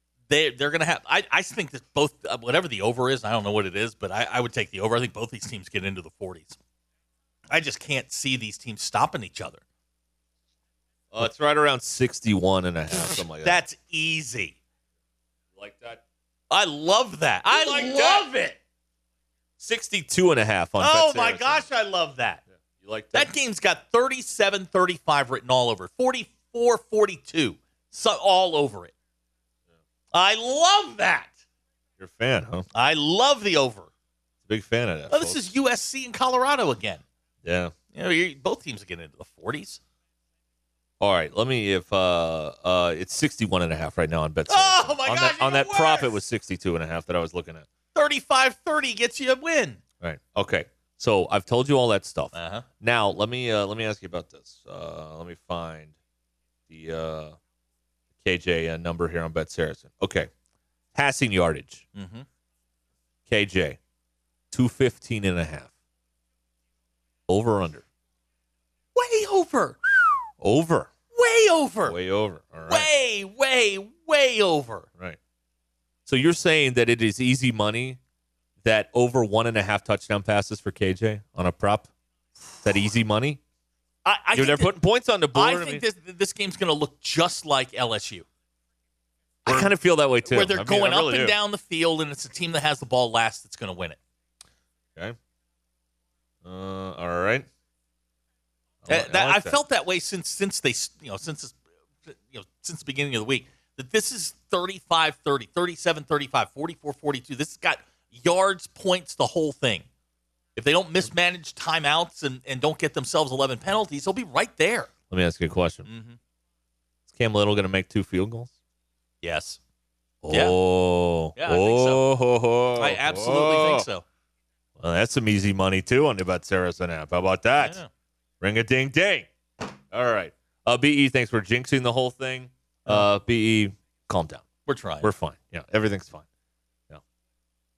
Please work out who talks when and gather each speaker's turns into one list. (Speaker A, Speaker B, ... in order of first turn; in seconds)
Speaker A: 0.3-6.6, 7.5-9.6, 13.4-14.6, 16.5-18.6, 20.8-22.4, 23.1-28.9, 30.1-31.4, 32.7-33.9, 35.1-37.0, 37.9-39.8, 44.5-46.1, 48.0-49.8, 52.3-52.7, 62.0-62.2, 69.0-70.1, 71.1-72.0, 72.7-74.9, 84.0-84.8, 85.3-88.2, 89.5-89.7, 90.2-94.0, 98.9-109.8, 110.6-114.9, 115.9-116.2, 119.2-119.6, 120.3-120.5, 121.4-122.0, 122.8-124.0, 127.6-127.9, 134.7-135.1
Speaker B: 11.1-13.6, 15.6-16.0, 17.5-18.3, 19.6-21.6, 22.7-23.3, 32.0-32.7, 34.5-35.4, 37.4-37.7, 41.0-47.7, 50.0-55.9, 56.7-57.4, 58.2-60.3, 61.0-61.9, 63.3-63.8, 64.5-65.7, 67.3-67.8, 70.4-70.9, 71.9-72.9, 76.1-78.0, 78.6-81.9, 82.6-83.4, 84.3-85.8, 89.5-91.3, 96.4-97.5, 98.8-99.6, 115.1-115.9, 117.1-118.5, 120.2-123.9, 124.8-127.8, 128.4-129.3, 129.9-134.4, 135.0-136.2